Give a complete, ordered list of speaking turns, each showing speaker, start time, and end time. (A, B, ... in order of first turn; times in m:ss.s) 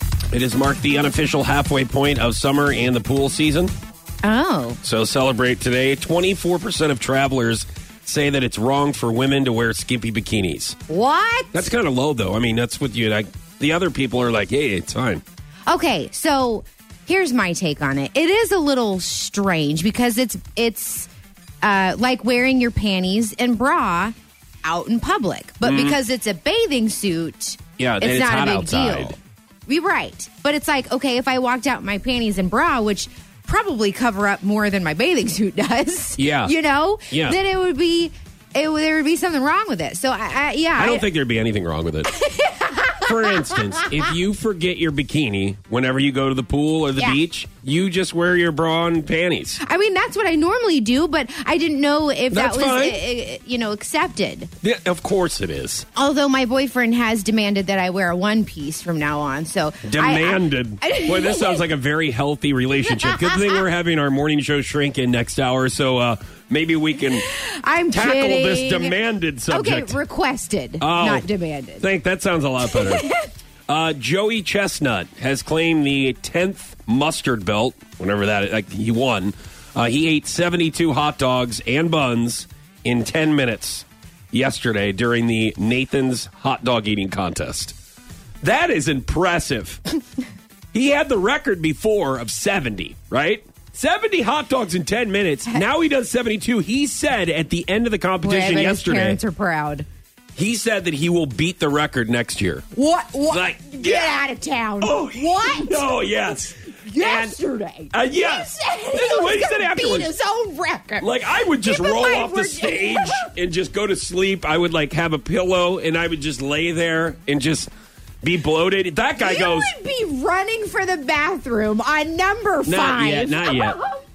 0:00.3-0:03.7 A
0:04.2-0:04.8 B
0:04.8-0:10.8 A
0:10.9-0:11.6 B
0:11.5-0:15.2 A
0:15.7-0:21.1 B
0:21.6-0:41.1 B
0:25.6-0:26.0 A
0:27.8-0:29.2 A
0:36.2-0:36.5 A
0:37.1-0:37.4 A
0:40.8-0:42.1 A
0:42.1-0:44.1 B
0:43.0-0:49.6 A
0:49.6-0:54.5 B
0:52.3-0:53.0 A
0:54.6-0:55.8 A
0:55.9-1:01.6 B
0:59.8-1:07.2 A
1:02.8-1:03.6 B
1:07.1-1:09.0 B
1:07.9-1:10.0 A
1:09.5-1:11.9 B
1:10.8-1:11.3 A
1:11.8-1:13.1 A
1:12.6-1:13.3 B
1:13.7-1:27.7 A
1:28.4-1:29.8 A
1:30.7-1:39.2 A
1:38.2-1:39.9 B
1:40.3-1:42.6 A
1:42.7-1:45.9 B
1:43.3-1:44.2 A
1:44.8-1:47.4 A
1:46.8-1:53.3 B
1:47.9-1:50.1 A
1:51.0-1:57.7 A
1:58.2-1:59.7 A
1:59.2-2:04.0 B
2:02.6-2:03.8 A